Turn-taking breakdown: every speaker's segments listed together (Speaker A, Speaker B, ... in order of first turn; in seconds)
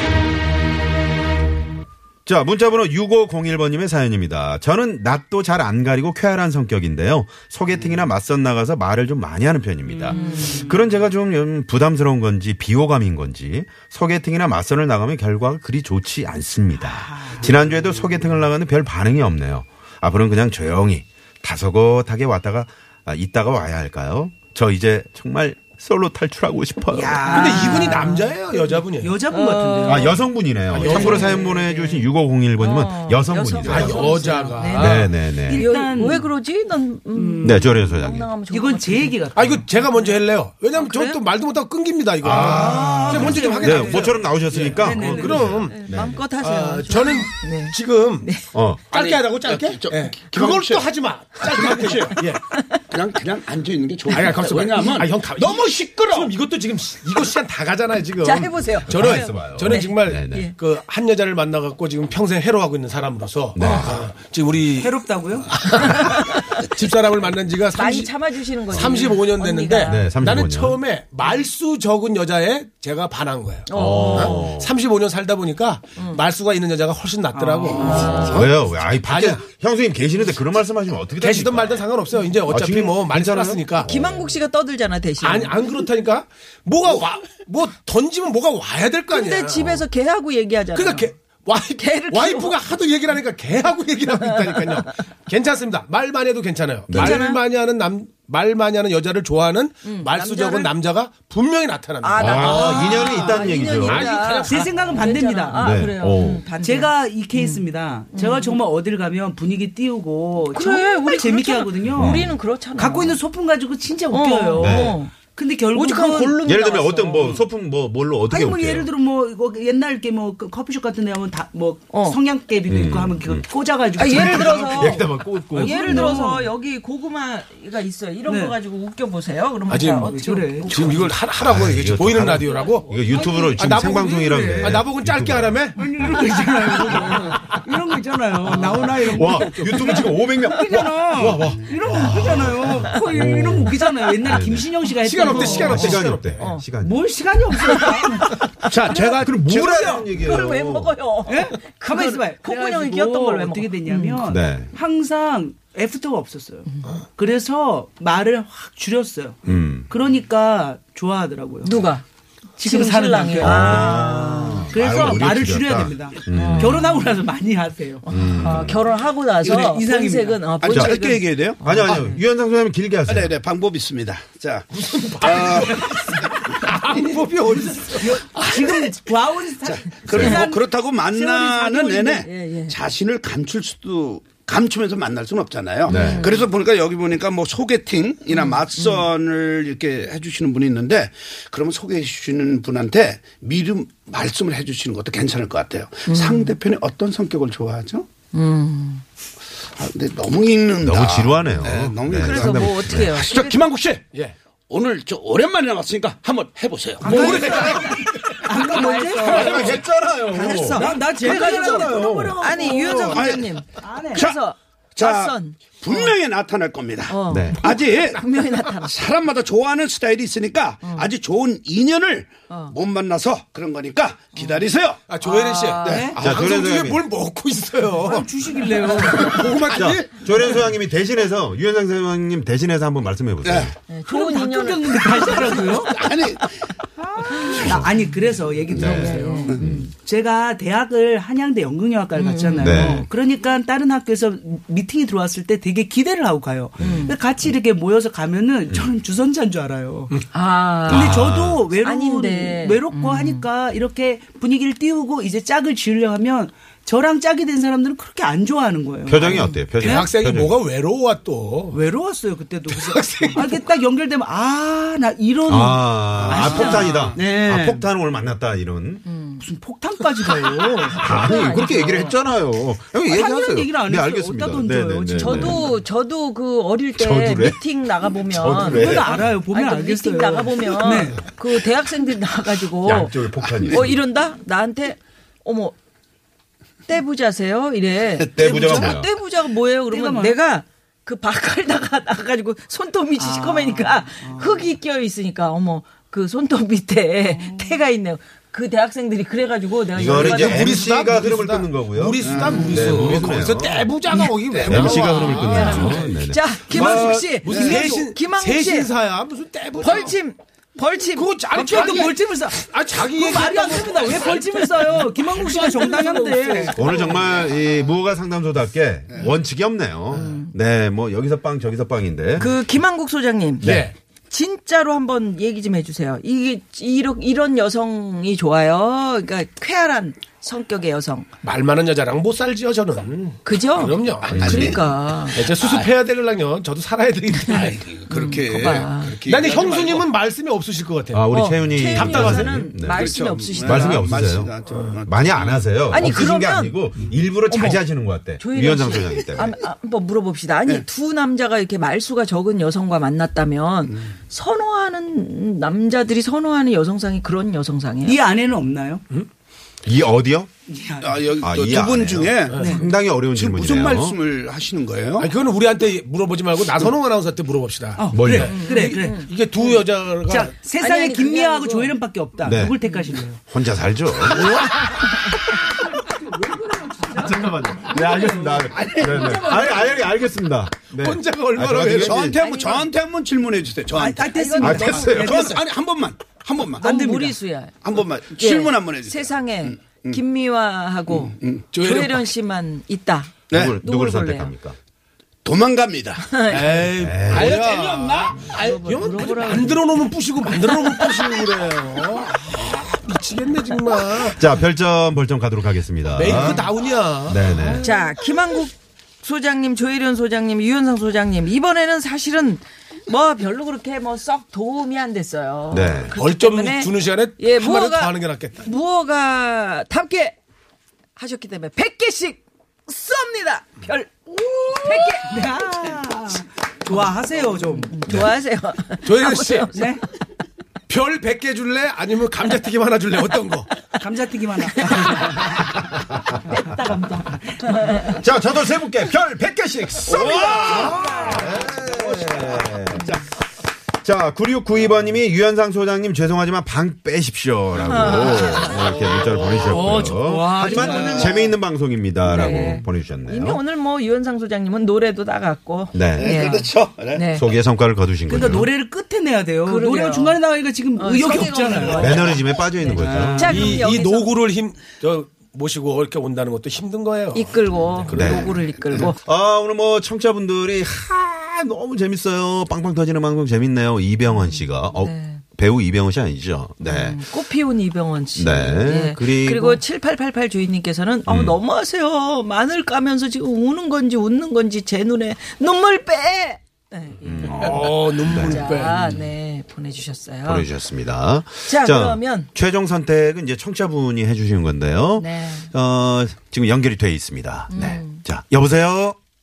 Speaker A: 2.3-27.8, 29.9-35.7, 37.4-38.3, 42.2-46.2, 48.5-48.8, 58.9-60.5, 63.6-64.1, 68.7-69.0, 69.9-70.8, 73.7-74.7, 77.9-81.8, 82.5-84.3, 96.9-97.2, 102.2-104.4, 105.5-106.5, 111.9-112.3, 114.6-115.0, 116.5-118.9, 122.7-123.5, 124.0-126.2, 131.4-136.1, 138.5-144.7, 145.3-147.1, 149.2-150.9, 154.2-154.7, 159.4-159.9, 163.4-166.8, 168.1-168.8, 170.7-171.0, 171.6-173.3, 185.9-186.3, 200.8-203.2, 209.2-212.5, 217.3-217.6, 226.2-227.0, 229.7-233.7, 237.6-237.9, 238.7-239.8, 242.6-243.1, 250.9-251.7, 259.1-260.6, 265.5-269.0, 271.0-275.7, 277.0-277.7, 278.3-279.3, 282.8-284.0, 288.4-289.1, 299.9-303.9, 304.6-307.3, 316.7-322.5, 323.6-323.9, 334.3-334.8, 341.1-344.5, 345.0-349.6, 359.9-360.5, 361.4-364.2, 368.1-368.6, 372.4-372.8, 373.3-374.6, 377.1-382.4, 384.6-385.4, 393.5-394.8, 397.0-397.6, 404.4-406.7, 407.3-407.9, 415.7-416.2, 428.1-428.3, 438.1-443.2, 444.0-453.6, 455.9-456.5, 457.3-458.7, 461.8-463.7, 468.1-477.3, 478.4-479.8, 481.3-481.6, 487.2-488.6, 490.4-499.2
Speaker B: 9.9-10.7, 16.8-17.5, 26.9-31.5, 35.3-36.3, 37.1-39.6, 42.3-45.5, 64.8-66.0, 104.4-105.6, 106.6-116.4, 118.3-126.5, 128.3-128.6, 130.0-130.7, 133.1-134.8, 135.8-146.1, 146.8-148.4, 151.3-161.8, 162.6-168.1, 169.4-170.4, 177.9-182.3, 207.0-209.8, 210.7-214.3, 225.9-226.2, 228.0-229.4, 234.1-236.0, 237.0-250.2, 250.9-260.1, 261.7-267.9, 269.4-271.4, 273.1-275.6, 278.6-281.2, 289.9-290.4, 293.2-294.7, 297.4-297.8, 305.5-306.1, 307.5-308.1, 311.5-316.9, 358.0-359.0, 360.7-361.2, 362.6-362.8, 368.0-369.2, 370.2-373.4, 375.8-380.1, 383.9-385.6, 386.8-387.4, 425.1-428.0, 429.7-430.0, 434.0-435.6, 436.5-438.2, 440.6-441.6, 449.6-451.5, 458.3-463.8
Speaker C: 10.1-10.7, 27.3-28.2, 29.3-30.0, 31.2-32.1, 32.6-39.3, 39.9-40.2, 40.7-41.2, 45.7-48.4, 52.1-52.8, 58.2-60.6, 66.0-66.7, 67.7-70.2, 73.7-74.5, 76.0-76.2, 77.4-78.5, 83.9-85.8, 89.1-91.1, 91.8-92.6, 94.3-94.9, 97.0-97.4, 99.8-100.7, 102.0-108.6, 110.4-113.2, 114.1-117.4, 121.9-122.2, 124.0-131.2, 145.7-146.6, 147.7-149.2, 149.7-154.3, 161.6-162.0, 162.6-164.7, 166.3-167.1, 168.1-172.2, 180.2-180.6, 182.2-182.8, 185.9-186.5, 188.3-189.1, 196.1-196.6, 198.3-199.0, 202.2-203.6, 207.4-207.8, 208.5-209.8, 210.3-216.2, 217.1-218.9, 220.8-221.1, 222.5-222.8, 224.3-224.7, 225.2-226.1, 233.8-235.8, 237.4-237.6, 238.9-239.7, 242.2-242.8, 246.8-247.2, 250.3-251.1, 251.7-253.5, 259.3-259.7, 269.1-269.4, 271.1-272.2, 275.2-285.8, 286.9-300.9, 304.1-308.9, 309.8-312.1, 320.1-320.5, 322.4-323.7, 324.3-331.3, 333.4-335.5, 337.5-339.2, 341.3-344.0, 345.9-346.8, 347.5-347.8, 348.4-358.2, 368.4-369.8, 370.6-372.0, 372.8-373.1, 382.4-382.9, 384.3-385.3, 386.8-394.5, 396.2-396.8, 398.6-401.1, 407.8-420.4, 421.2-425.9, 427.9-430.0, 434.8-435.2, 437.9-438.1, 447.8-448.9, 450.6-451.1, 452.2-457.5, 459.6-460.4, 460.9-462.7, 463.3-464.3, 467.3-469.2, 474.3-475.4, 476.8-490.7, 491.7-492.5, 495.2-495.7, 497.7-498.2
Speaker D: 27.3-29.2, 30.7-31.5, 33.7-35.3, 39.3-45.8, 46.3-48.4, 48.9-52.4, 54.1-79.5, 81.2-83.9, 85.2-89.9, 90.7-105.1, 129.7-133.0, 133.5-135.8, 136.8-137.1, 145.0-146.6, 174.8-178.2, 207.0-208.5, 225.1-228.3, 228.8-230.8, 259.2-261.8, 262.7-263.6, 300.0-310.2, 311.1-317.4, 323.6-323.9, 331.4-334.6, 335.3-338.0, 339.2-342.7, 362.5-362.8, 365.2-370.6, 374.3-375.1, 380.9-382.4, 391.7-392.4, 396.5-404.5, 406.1-408.2, 416.1-418.7, 429.1-429.7, 430.9-433.9, 449.0-449.5, 463.5-468.4, 487.4-489.3
Speaker E: 48.9-52.2, 52.9-56.3, 102.6-103.5, 148.7-150.1, 170.6-172.1, 173.1-176.0, 178.3-178.9, 179.6-198.1, 199.7-204.1, 204.7-207.6, 213.0-214.4, 215.0-225.1, 225.8-226.3, 229.6-230.0, 233.4-233.8, 235.8-236.7, 266.2-267.2, 283.4-283.9, 288.1-288.9, 302.2-303.2, 304.5-306.1, 334.4-335.9, 337.5-340.1, 342.9-345.6, 353.9-354.2, 361.0-365.3, 378.8-379.5, 381.8-386.9, 387.8-390.2, 391.1-391.7, 393.5-393.8, 395.4-398.5, 440.1-443.2, 456.1-457.3, 468.2-469.1